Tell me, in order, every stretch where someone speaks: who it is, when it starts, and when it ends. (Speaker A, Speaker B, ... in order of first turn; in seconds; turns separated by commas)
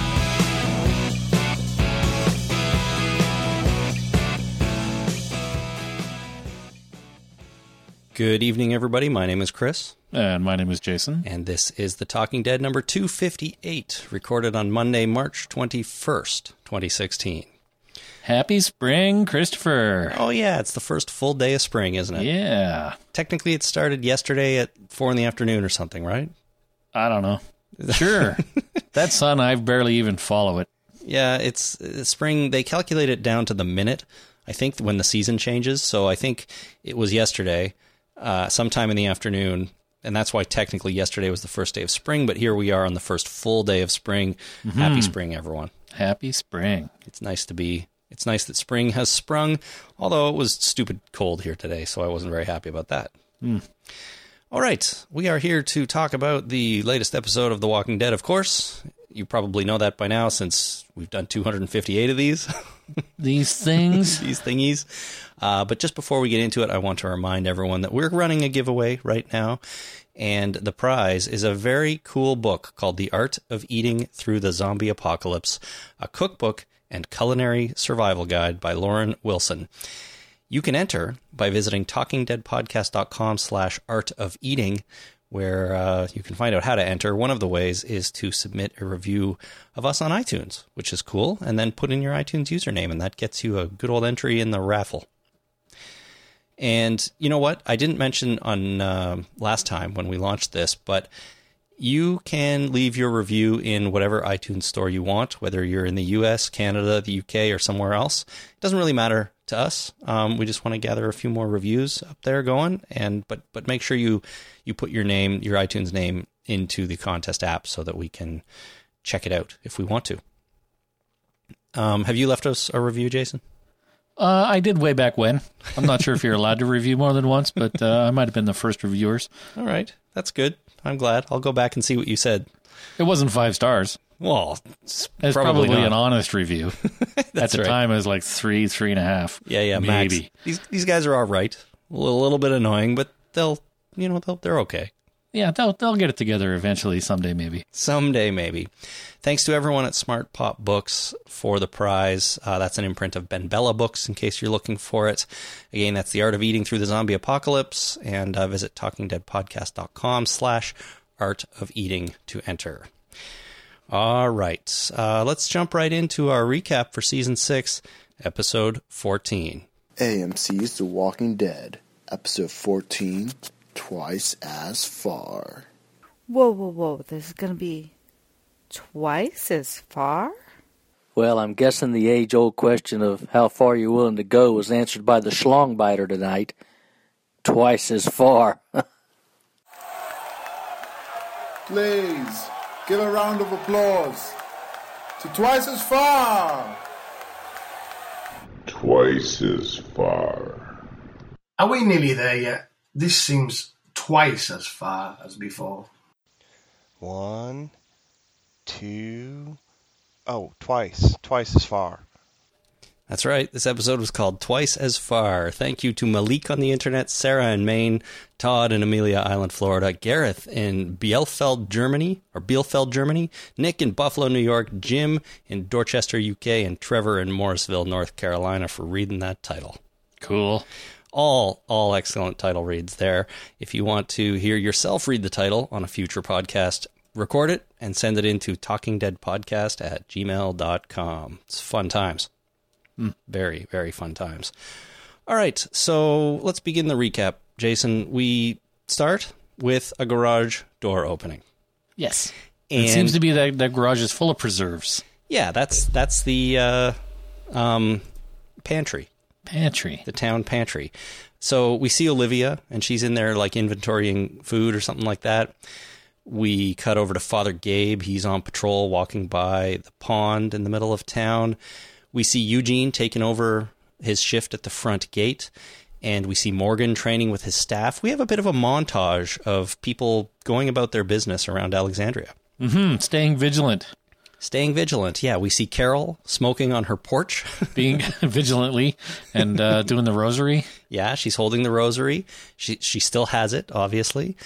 Speaker A: 8.1-9.9, Speaker B: 10.1-11.2, Speaker A: 11.2-17.5, Speaker B: 18.2-20.2, Speaker A: 20.1-22.3, Speaker B: 22.2-23.0, Speaker A: 23.1-26.3, Speaker B: 26.9-30.7, Speaker A: 27.8-28.4, Speaker A: 31.0-45.7, Speaker B: 44.6-45.1, Speaker B: 45.9-46.9, Speaker A: 47.1-53.1, Speaker A: 54.5-62.5, Speaker B: 63.2-64.2, Speaker A: 63.9-69.6, Speaker A: 70.2-79.7, Speaker A: 80.5-95.0, Speaker A: 96.6-101.1, Speaker A: 101.8-118.4, Speaker A: 119.0-120.2, Speaker A: 121.7-123.4, Speaker B: 124.2-129.3, Speaker A: 129.6-132.5, Speaker B: 133.0-134.0, Speaker A: 134.2-135.9, Speaker B: 135.2-136.8, Speaker A: 137.0-137.8, Speaker B: 137.4-140.3, Speaker A: 139.4-144.9, Speaker B: 145.3-147.6, Speaker A: 147.7-148.7, Speaker A: 149.2-162.9, Speaker A: 163.9-169.6, Speaker C: 170.0-175.7, Speaker D: 176.3-177.9, Speaker D: 178.7-180.4, Speaker E: 181.1-186.5, Speaker E: 187.4-188.6, Speaker F: 191.7-194.3, Speaker F: 195.2-196.8, Speaker G: 198.7-200.6, Speaker H: 201.6-205.9, Speaker I: 207.0-207.7, Speaker I: 208.7-209.6, Speaker I: 210.3-212.0, Speaker A: 213.1-229.8, Speaker B: 230.2-230.6, Speaker A: 231.1-242.3, Speaker A: 243.3-244.5, Speaker A: 245.3-251.4, Speaker B: 252.0-255.0, Speaker A: 252.7-253.2, Speaker A: 255.3-257.0, Speaker A: 257.5-258.1, Speaker A: 258.6-259.1, Speaker B: 259.5-260.0, Speaker A: 260.1-265.5, Speaker A: 266.2-271.6, Speaker A: 272.1-275.5, Speaker A: 276.0-282.4, Speaker B: 282.6-283.9, Speaker A: 284.4-287.7, Speaker B: 287.7-290.7, Speaker A: 290.9-294.4